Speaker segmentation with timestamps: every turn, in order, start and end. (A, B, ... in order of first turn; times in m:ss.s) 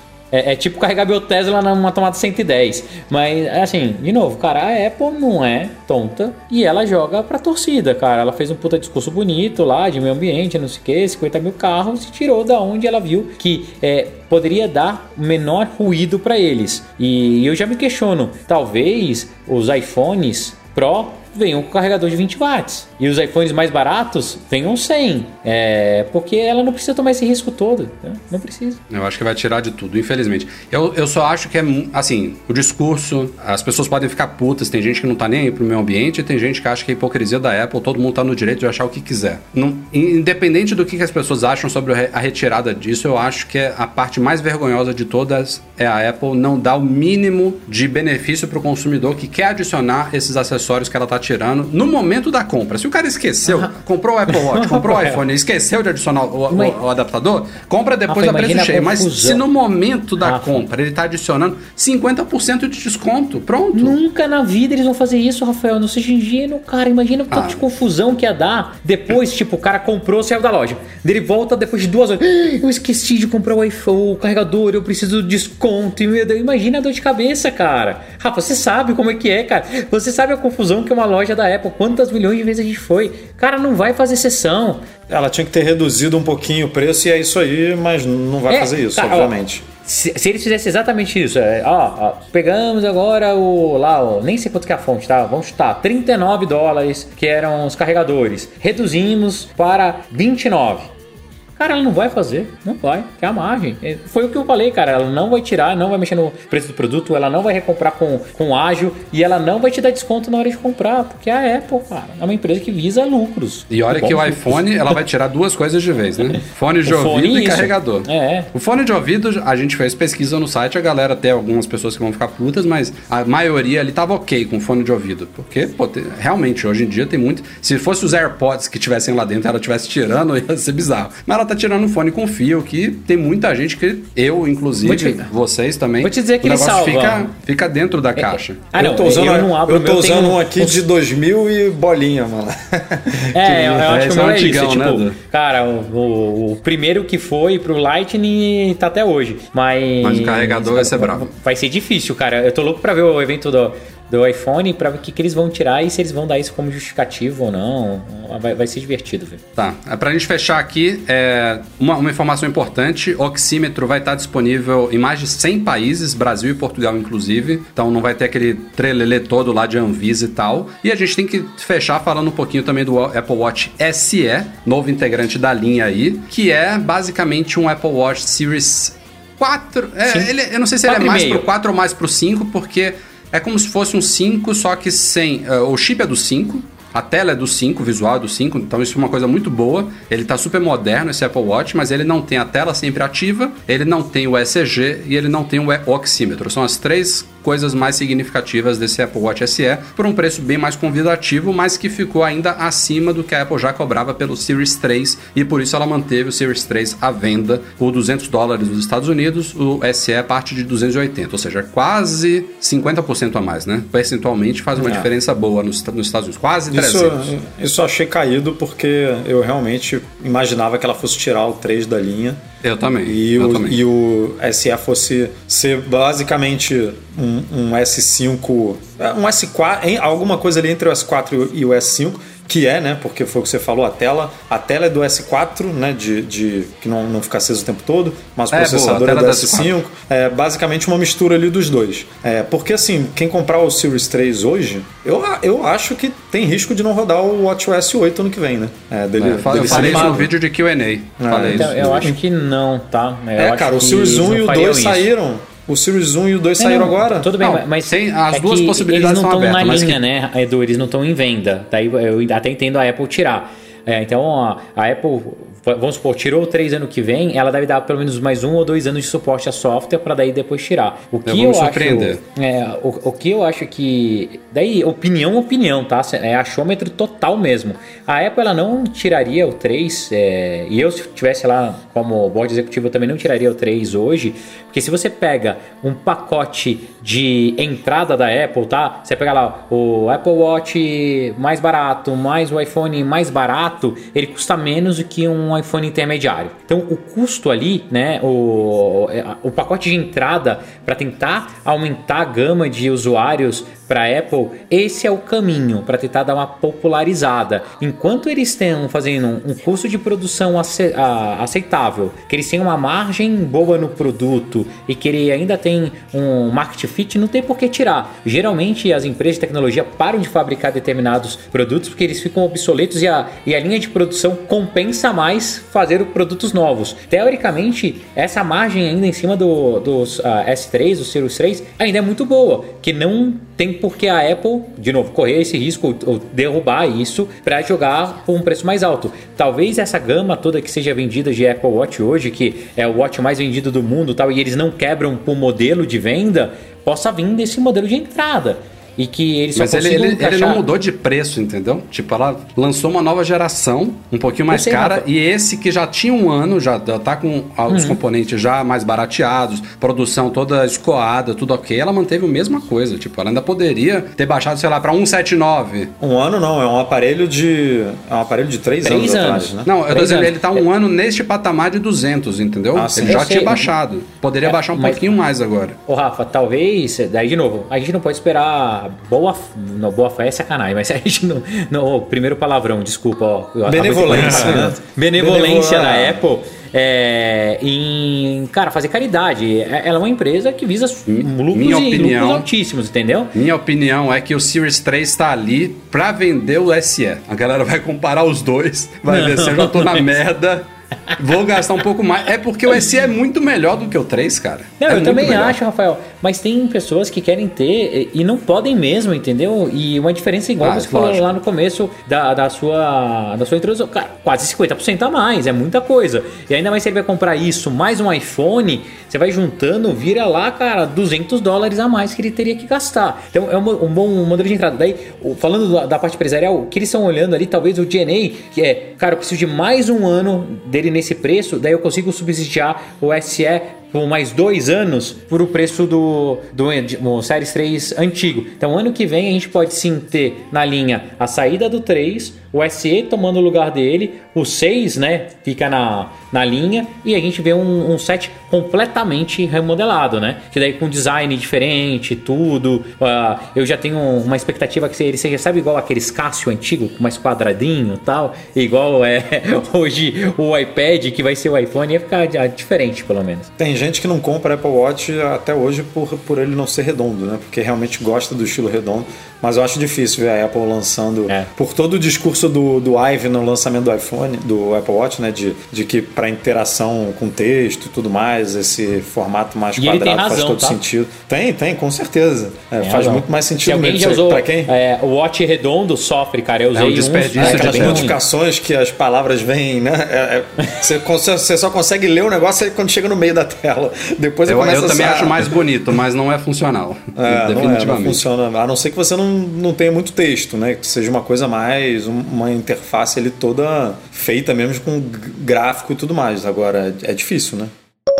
0:00.3-0:28.8 A
0:28.9-1:04.0 B
0:54.3-0:55.2 A
0:56.5-0:56.8 A
0:58.1-0:59.4 A
1:00.2-1:00.6 A
1:03.7-1:24.9 A
1:07.3-1:07.6 B
1:25.1-1:29.6 C
1:28.5-1:40.9 A
1:41.6-1:55.0 A
1:53.7-2:18.7 B
1:56.3-1:58.5 A
2:14.8-2:15.3 A
2:16.0-2:17.3 A
2:18.2-2:20.8 A
2:18.8-2:23.6 C
2:23.3-2:39.4 A
2:23.6-2:25.2 B
2:30.0-2:31.3 B
2:39.6-3:37.4 B
3:00.9-3:01.4 A
3:34.8-3:35.1 C
3:36.7-3:42.4 C
3:42.6-3:43.8 B
3:43.0-4:10.3 C
3:58.5-3:59.8 B
4:09.2-4:12.1 B
4:09.5-4:10.1 A
4:11.2-4:12.2 C
4:11.3-4:15.1 A
4:13.4-4:17.3 C
4:16.6-5:50.6 A
4:17.4-4:20.0 B
4:31.3-4:32.2 B
5:49.6-6:05.9 B
5:54.5-5:55.0 A
5:57.7-5:58.0 A
6:06.0-6:09.7 C
6:08.8-6:10.7 A
6:09.6-6:15.8 B
6:12.7-6:13.3 C
6:13.0-6:13.7 A
6:14.4-6:15.2 A
6:15.9-6:33.3 A
6:23.6-6:26.2 C
6:24.1-6:24.7 B
6:31.1-6:32.5 B
6:33.3-6:45.6 B
6:39.1-6:40.1 A
6:44.8-7:43.5 A
6:50.6-6:51.3 B
7:43.6-8:04.7 C
7:59.8-8:00.8 A
8:02.8-8:08.2 A
8:06.7-8:08.1 B
8:07.4-8:15.6 C
8:14.5-8:18.2 B
8:17.2-8:27.7 C